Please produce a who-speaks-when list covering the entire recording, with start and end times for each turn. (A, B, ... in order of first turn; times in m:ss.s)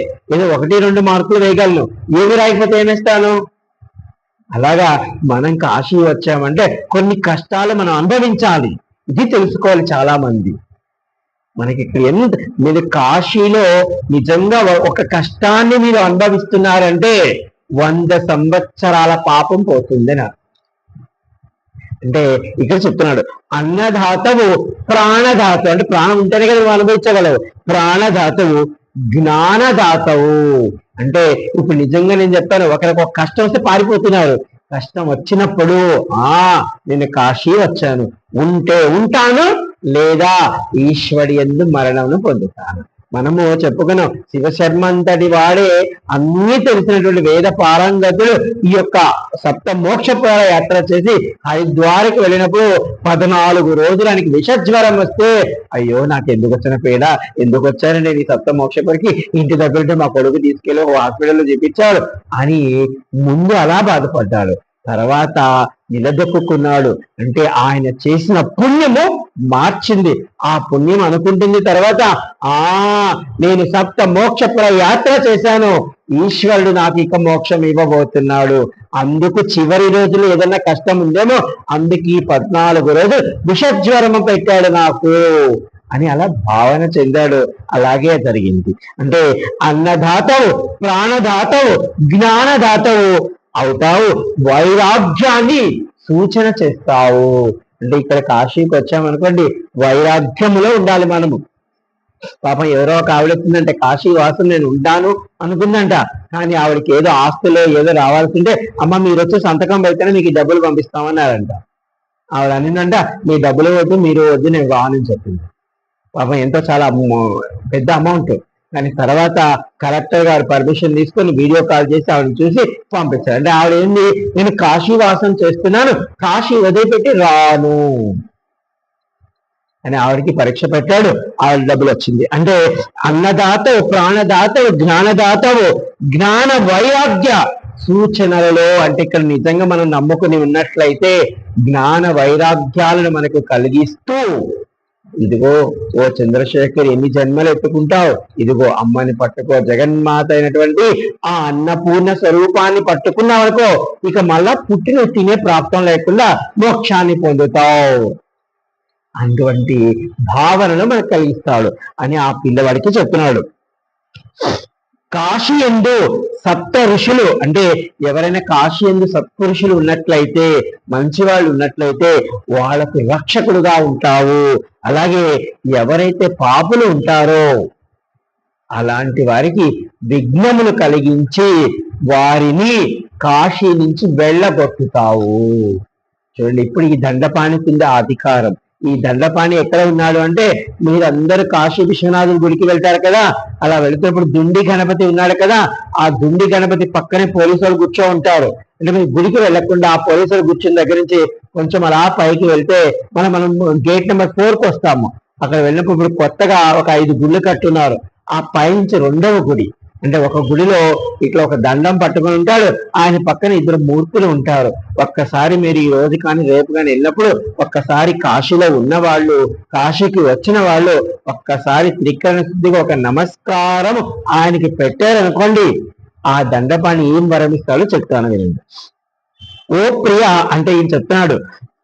0:00.3-0:03.4 A
0:04.5-0:10.5 A
0:11.6-0:17.2 A
0:17.8-0:20.3 A
0:22.0-0:28.6 A
0:29.1-1:41.4 A
1:42.4-1:51.6 A
1:52.4-1:55.5 A
1:56.2-2:08.2 A
2:09.8-2:24.2 A
2:25.2-2:38.1 A
2:39.2-2:43.4 A
2:45.1-2:57.5 A
2:58.8-3:01.5 A
3:02.1-3:05.8 A
3:06.4-3:45.7 A
3:46.3-3:48.6 A
3:49.7-3:51.4 A